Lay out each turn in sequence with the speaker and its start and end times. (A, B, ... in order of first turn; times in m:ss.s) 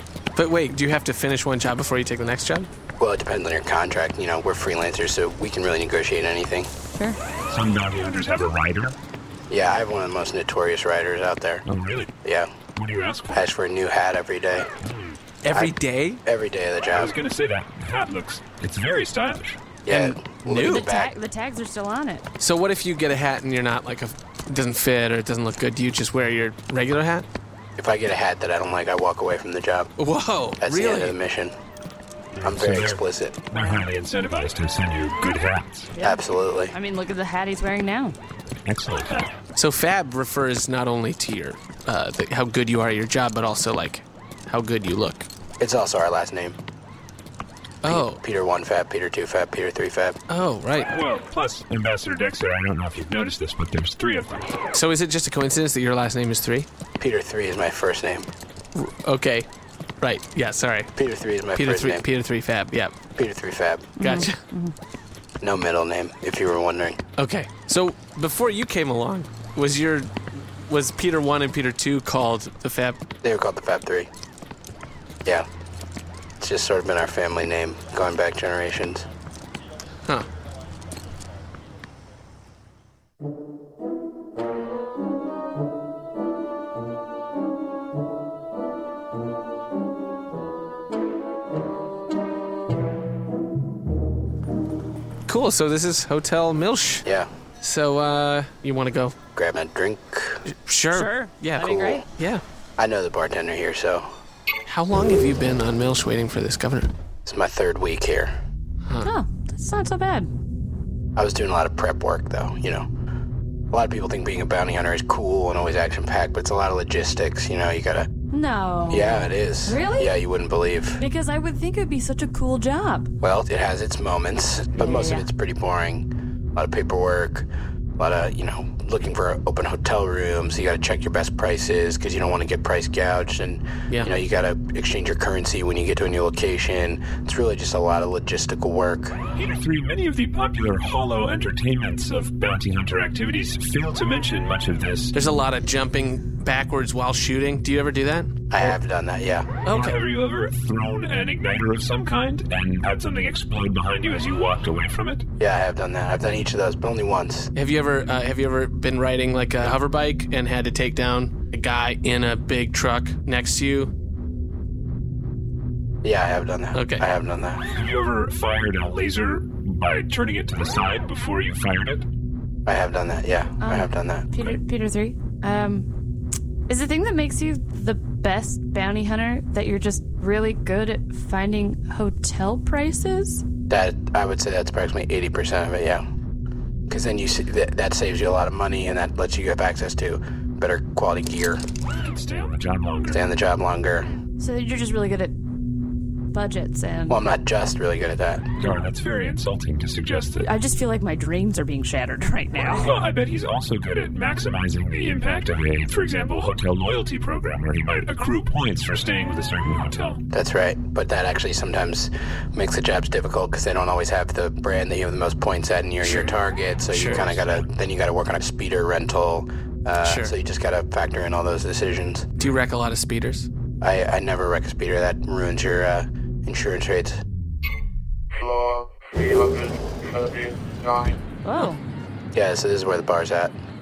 0:00.4-0:02.7 A
0:03.0-0:06.7 B
0:07.5-0:09.0 C
0:09.5-0:11.6 B
0:11.7-0:12.1 C
0:12.2-0:12.5 B
0:12.8-0:13.4 C
0:13.3-0:14.7 B
0:14.8-0:15.2 C
0:15.4-0:16.2 A
0:15.5-0:17.1 B
0:16.9-0:19.6 C
0:19.8-0:21.1 B
0:19.9-0:20.9 A
0:20.6-0:22.2 D
0:22.4-0:27.3 A
0:27.8-0:29.9 B
0:30.0-0:31.2 A
0:30.6-0:31.6 B
0:32.4-0:35.9 C
0:32.4-0:33.4 B
0:33.6-0:33.8 D
0:35.9-0:38.2 D
0:36.0-0:36.8 B
0:38.6-0:39.3 C
0:39.6-0:45.3 A
0:45.6-0:46.6 B
0:47.8-0:48.2 A
0:47.8-0:50.2 B
0:50.3-0:50.9 A
0:50.9-0:54.6 C
0:54.7-0:56.7 A
0:57.0-0:58.3 B
0:58.8-0:59.5 A
1:00.0-1:00.9 A
1:01.0-1:02.0 B
1:01.6-1:02.9 A
1:03.2-1:04.0 B
1:04.0-1:04.7 D
1:04.0-1:04.4 A
1:05.4-1:07.0 B
1:07.2-1:13.0 A
1:13.2-1:14.1 B
1:16.4-1:19.1 B
1:35.3-1:37.0 A
1:37.0-1:37.3 B
1:37.6-1:39.2 A
1:39.4-1:40.4 B
1:40.5-1:42.4 A
1:40.9-1:42.0 D
1:41.6-1:42.0 B
1:42.8-1:44.1 B
1:44.7-1:46.9 A
1:47.2-1:48.3 B
1:49.0-1:50.3 D
1:51.2-1:52.9 B
1:53.7-1:58.1 B
1:58.3-2:00.2 D
1:58.9-2:01.0 B
2:01.0-2:03.1 D
2:03.2-2:07.5 B
2:04.8-2:05.3 D
2:08.0-2:19.2 B
2:19.4-2:25.1 C
2:25.1-2:28.7 A
2:28.5-2:29.5 B
2:29.7-2:30.0 A
2:29.7-2:35.3 C
2:35.4-2:37.5 B
2:37.6-2:43.9 A
2:46.0-2:47.6 B
2:46.7-2:47.1 A
2:47.7-2:52.1 C
2:52.7-2:54.3 B
2:53.6-2:55.9 D
2:56.7-3:03.4 D
3:03.7-3:06.1 B
3:06.9-3:11.6 B
3:12.0-3:13.2 C
3:13.1-3:14.1 B
3:14.4-3:15.3 D
3:16.3-3:17.2 D
3:17.1-3:18.4 B
3:18.6-3:20.5 C
3:20.4-3:23.0 D
3:22.6-3:30.2 C
3:30.3-3:42.3 B
3:36.9-3:37.3 A
3:40.0-3:40.3 A
3:42.4-3:43.5 A
3:43.8-3:47.2 B
3:51.4-3:51.8 D
3:52.3-3:53.5 B